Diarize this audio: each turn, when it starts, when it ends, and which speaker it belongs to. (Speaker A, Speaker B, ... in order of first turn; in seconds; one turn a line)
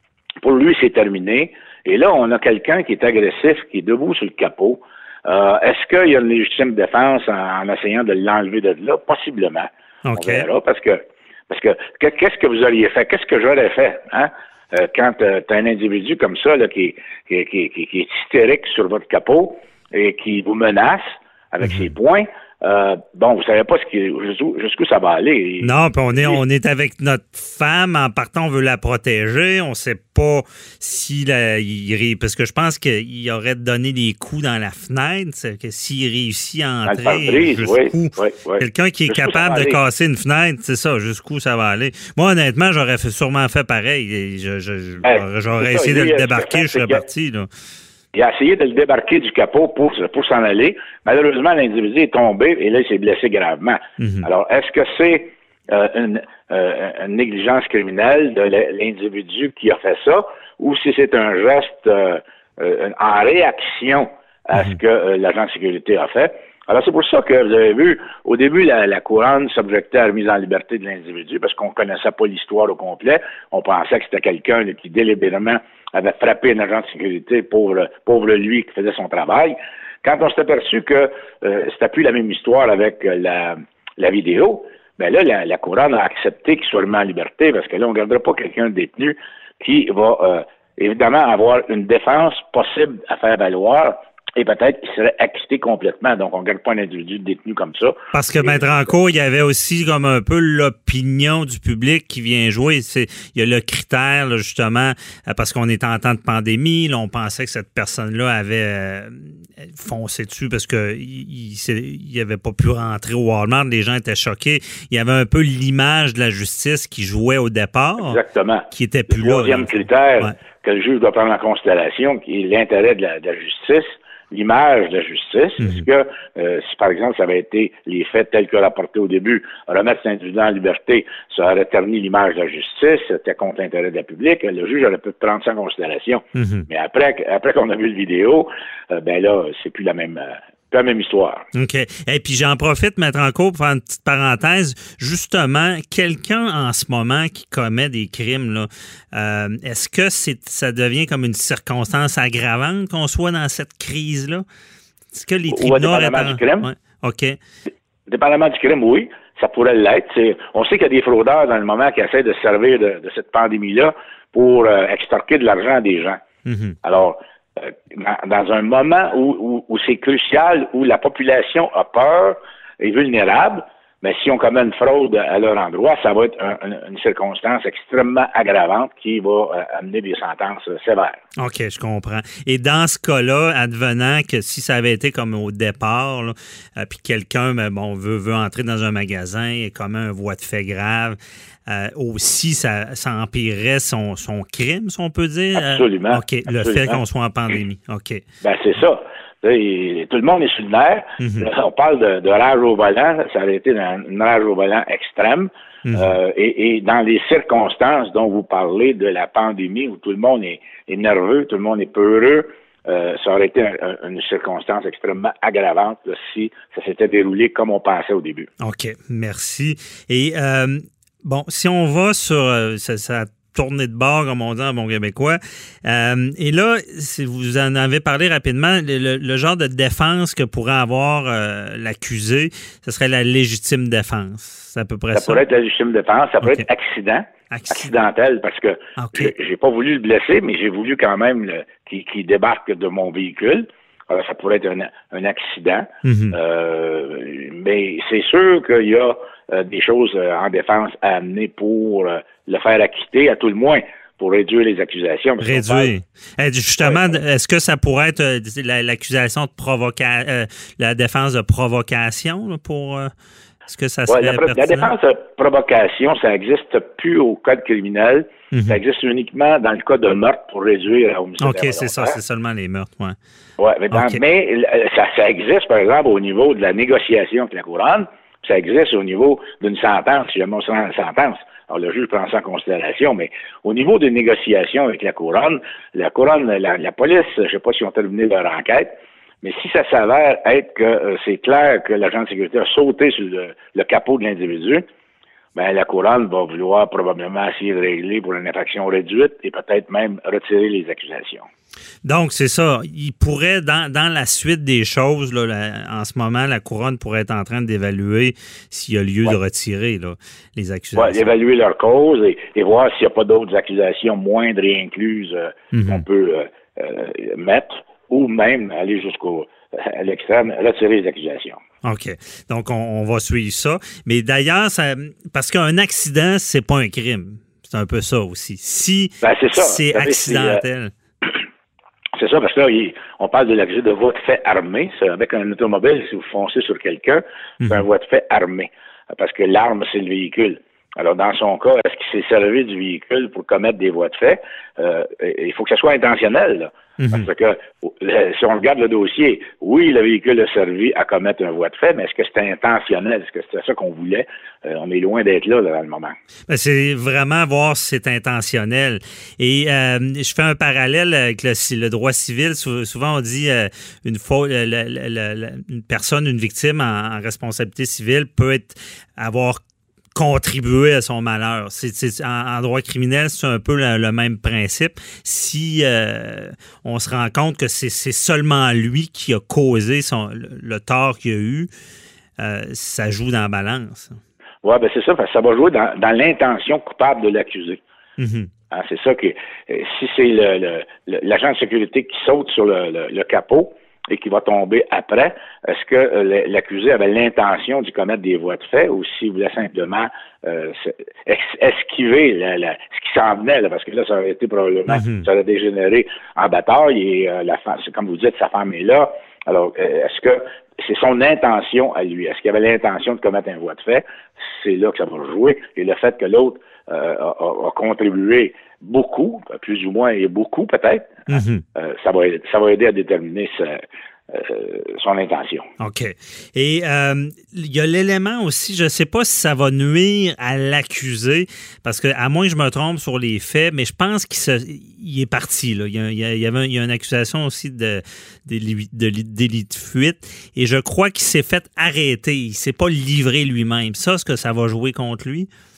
Speaker A: 0.4-26.4
Speaker B: 10.0-10.5
Speaker B: 21.6-21.9
Speaker B: 25.6-47.5
Speaker A: 36.9-39.8
Speaker A: 45.0-47.0
Speaker A: 48.1-98.9
Speaker B: 54.0-54.3
Speaker B: 98.1-118.2
Speaker A: 118.0-141.4
Speaker B: 118.7-120.3
Speaker B: 125.6-125.8
Speaker B: 136.3-136.7
Speaker B: 141.5-154.4
Speaker B: 155.1-157.3
Speaker A: 155.5-156.7
Speaker A: 158.1-166.2
Speaker B: 166.4-166.8
Speaker A: 166.8-181.2
Speaker B: 181.4-198.2
Speaker A: 195.5-197.0
Speaker A: 198.4-218.5
Speaker B: 201.2-201.5
Speaker B: 205.8-206.2
Speaker B: 218.6-235.4
Speaker A: 235.1-255.9
Speaker B: 237.5-238.0
Speaker B: 239.0-239.3
Speaker B: 246.0-246.4
Speaker B: 255.4-263.1
Speaker A: 256.8-257.1
Speaker B: 263.7-264.9
Speaker A: 264.1-272.2
Speaker B: 268.5-268.8
Speaker B: 271.4-273.2
Speaker A: 273.6-294.8
Speaker B: 273.9-274.2
Speaker A: 295.5-301.5
Speaker B: 302.0-311.2
Speaker A: 310.9-321.6
Speaker B: 315.7-316.0
Speaker B: 321.8-330.9
Speaker A: 329.2-330.6
Speaker A: 332.2-356.1
Speaker B: 347.0-347.3
Speaker B: 356.5-369.6
Speaker B: 370.1-381.7
Speaker B: 382.4-384.2
Speaker A: 384.6-387.8
Speaker B: 388.2-388.5
Speaker A: 388.7-425.7
Speaker B: 404.9-405.3
Speaker B: 421.3-421.6
Speaker B: 425.8-445.5